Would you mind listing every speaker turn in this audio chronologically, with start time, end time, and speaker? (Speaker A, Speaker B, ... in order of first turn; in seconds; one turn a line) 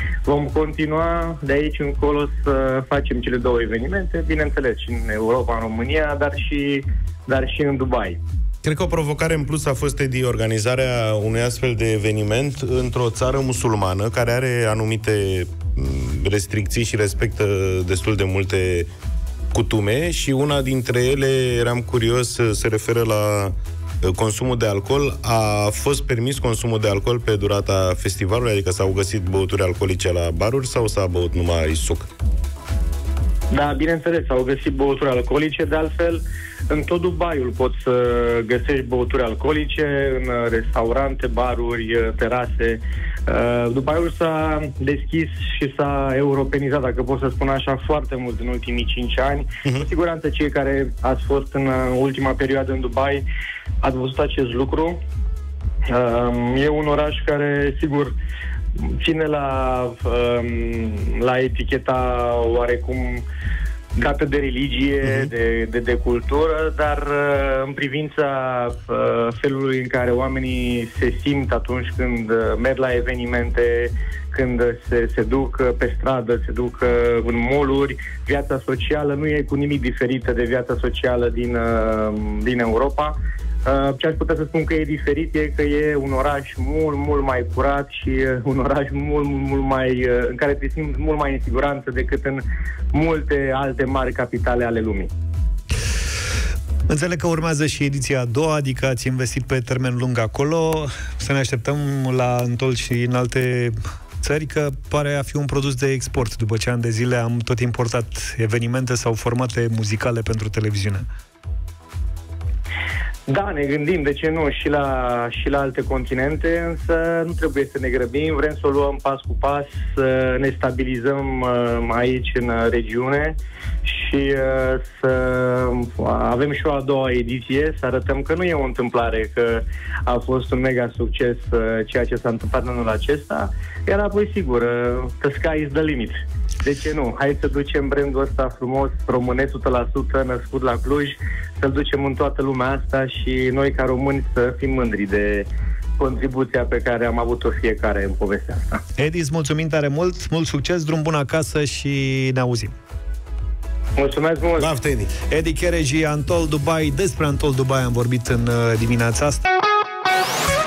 Speaker A: 0.2-8.2
Speaker B: 8.6-18.9
Speaker B: 19.5-32.1
Speaker A: 33.5-53.2
Speaker A: 53.8-55.0
Speaker A: 55.9-58.1
Speaker A: 58.8-63.2
Speaker A: 64.0-95.1
Speaker C: 96.9-111.0
Speaker A: 113.3-148.8
Speaker C: 149.0-152.7
Speaker A: 154.0-154.7
Speaker B: 154.6-155.1
Speaker C: 155.3-159.5